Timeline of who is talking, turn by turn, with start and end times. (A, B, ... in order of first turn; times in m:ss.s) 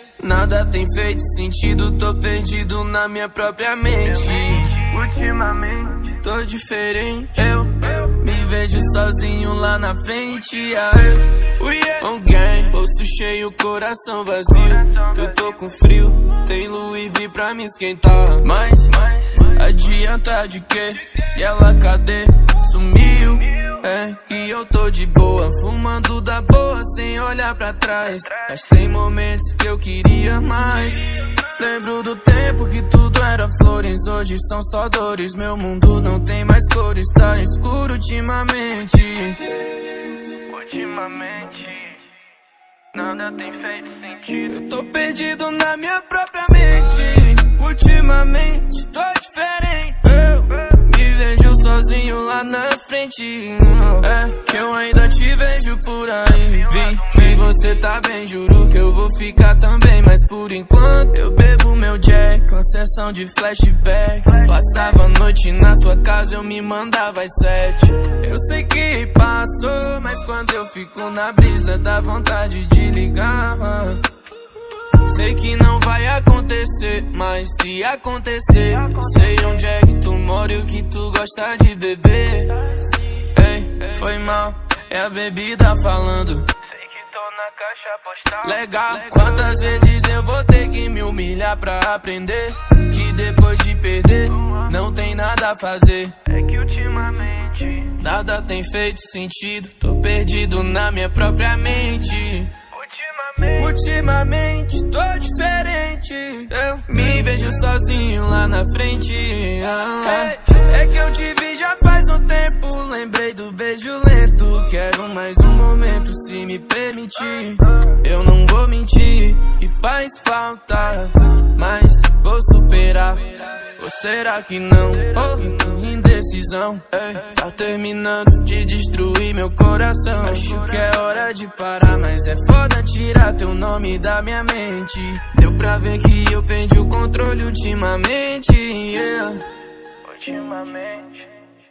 0:00.2-0:39.5 A
0:04.3-0:04.7 B
0:14.7-0:15.2 B
0:19.0-0:19.4 B
0:40.5-0:41.7 A
0:41.2-0:42.0 B
0:42.9-1:14.0 A
0:56.4-0:57.2 B
1:14.9-1:26.6 A
1:18.8-1:19.6 B
1:26.8-1:28.4 B
1:28.3-1:36.9 A
1:36.4-1:37.7 B
1:37.7-1:42.6 A
1:42.7-1:43.6 B
1:43.5-2:19.5 A
2:20.1-2:20.8 A
2:20.1-2:21.3 B